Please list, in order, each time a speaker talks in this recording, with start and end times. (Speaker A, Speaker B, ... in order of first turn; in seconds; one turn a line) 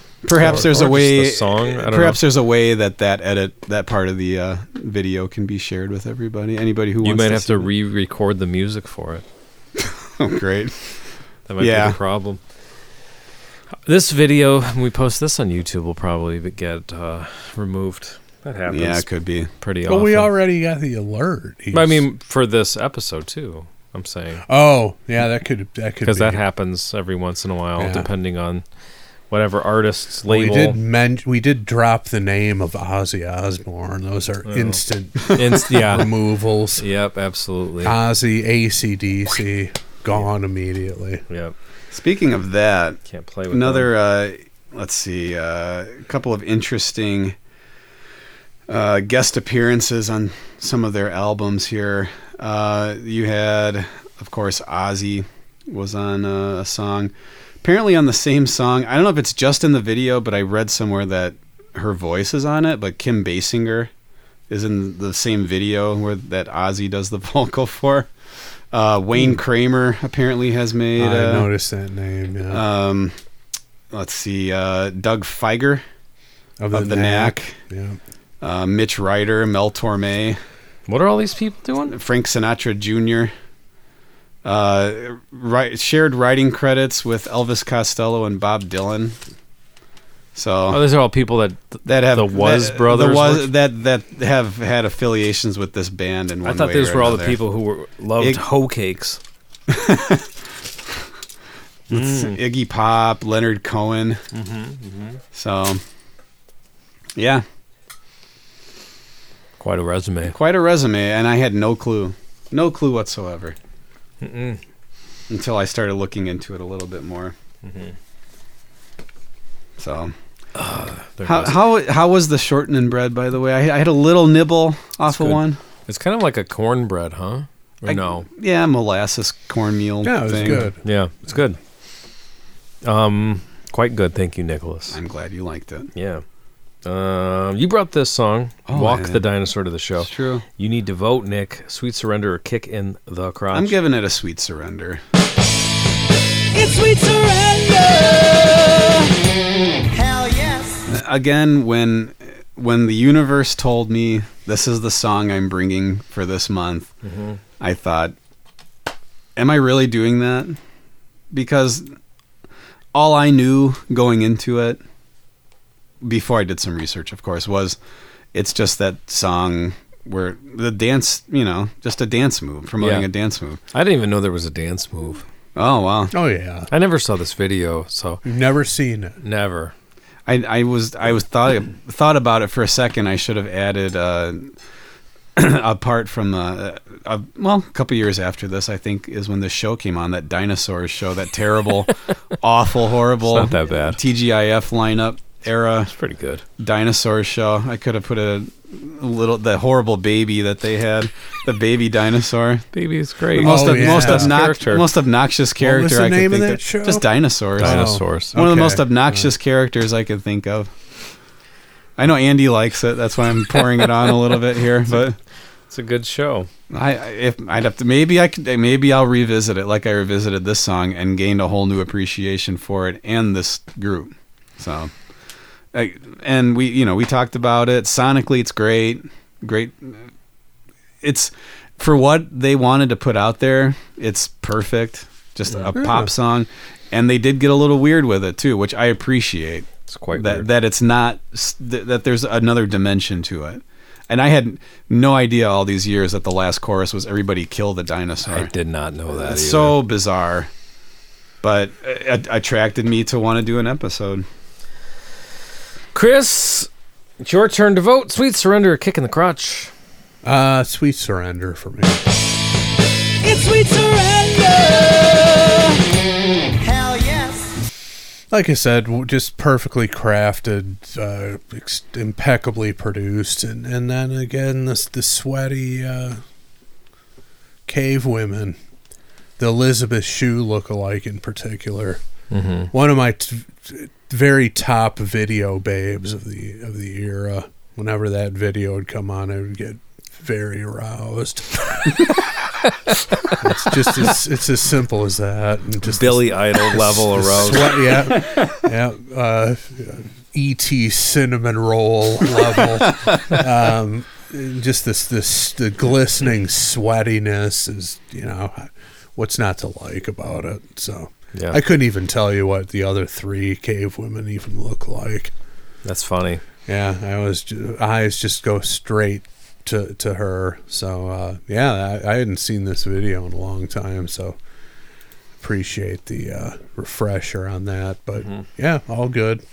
Speaker A: 0.2-7.7
Speaker B: 0.3-2.2
Speaker B: 7.0-9.2
Speaker A: 9.8-10.8
Speaker B: 11.5-12.4
Speaker A: 11.6-12.0
Speaker B: 13.9-19.1
Speaker A: 18.7-19.5
Speaker B: 19.6-20.3
Speaker C: 19.9-22.0
Speaker B: 21.7-24.4
Speaker C: 24.5-26.4
Speaker B: 26.0-28.6
Speaker C: 27.8-28.1
Speaker B: 29.3-30.8
Speaker C: 30.3-36.8
Speaker B: 34.5-36.1
Speaker B: 36.8-37.9
Speaker C: 37.8-41.2
Speaker B: 41.3-41.5
Speaker A: 41.9-47.4
Speaker B: 43.1-43.9
Speaker A: 48.7-63.9
Speaker A: 64.5-68.1
Speaker A: 68.7-71.5
Speaker C: 71.0-72.6
Speaker A: 72.5-73.1
Speaker A: 73.9-75.8
Speaker C: 76.6-78.0
Speaker A: 76.7-77.5
Speaker A: 78.4-80.4
Speaker B: 80.9-82.0
Speaker A: 81.9-83.3
Speaker A: 84.4-89.2
Speaker A: 90.3-90.8
Speaker B: 90.7-93.5
Speaker A: 91.8-97.4
Speaker B: 96.4-99.2
Speaker A: 99.7-100.3
Speaker B: 101.9-102.4
Speaker A: 101.9-104.2
Speaker B: 104.3-105.2
Speaker A: 105.3-105.8
Speaker A: 107.2-107.4
Speaker B: 109.6-110.4
Speaker A: 110.2-113.5
Speaker B: 114.2-114.6
Speaker A: 115.3-117.3
Speaker B: 117.6-117.9
Speaker A: 119.8-120.1
Speaker B: 120.5-121.6
Speaker A: 121.2-125.6
Speaker B: 125.0-128.3
Speaker A: 127.9-130.7
Speaker C: 130.0-130.8
Speaker B: 130.5-131.6
Speaker B: 132.8-135.0
Speaker A: 134.9-135.9
Speaker B: 135.9-136.2
Speaker B: 136.8-143.8
Speaker A: 138.7-139.2
Speaker A: 140.0-140.4
Speaker A: 143.5-145.0
Speaker D: 146.5-149.2
Speaker D: 149.9-150.8
Speaker A: 150.9-156.9
Speaker B: 157.0-157.4
Speaker A: 157.6-158.1
Speaker A: 159.4-160.6
Speaker A: 161.3-161.9
Speaker A: 162.9-164.8
Speaker A: 166.0-167.8
Speaker A: 168.3-173.6
Speaker B: 172.8-173.1
Speaker B: 173.7-175.2
Speaker A: 175.5-176.1
Speaker C: 176.1-176.7
Speaker B: 176.7-178.2
Speaker C: 178.2-179.2
Speaker B: 179.2-179.7
Speaker A: 180.3-184.5
Speaker A: 185.4-195.9
Speaker B: 193.2-194.0
Speaker B: 195.9-196.4
Speaker A: 196.6-202.7
Speaker B: 202.7-204.9
Speaker A: 203.3-210.7
Speaker C: 203.4-204.4
Speaker C: 205.6-209.3
Speaker B: 207.6-208.4
Speaker A: 212.0-215.2
Speaker B: 215.7-216.5
Speaker A: 216.7-224.9
Speaker A: 225.7-230.1
Speaker A: 231.0-248.5
Speaker C: 235.7-236.1
Speaker B: 239.9-240.5
Speaker B: 248.2-249.8
Speaker A: 249.1-250.5
Speaker A: 251.4-254.2
Speaker B: 255.9-256.7
Speaker B: 257.2-259.7
Speaker C: 260.2-262.0
Speaker D: 263.2-265.8
Speaker D: 266.6-267.5
Speaker C: 268.3-276.2
Speaker C: 277.7-278.6
Speaker C: 279.4-282.0
Speaker B: 282.3-282.7
Speaker C: 282.7-291.9
Speaker C: 293.4-315.3
Speaker B: 295.8-297.9
Speaker B: 315.8-316.4
Speaker C: 316.7-324.4
Speaker C: 325.4-329.4
Speaker B: 328.2-328.4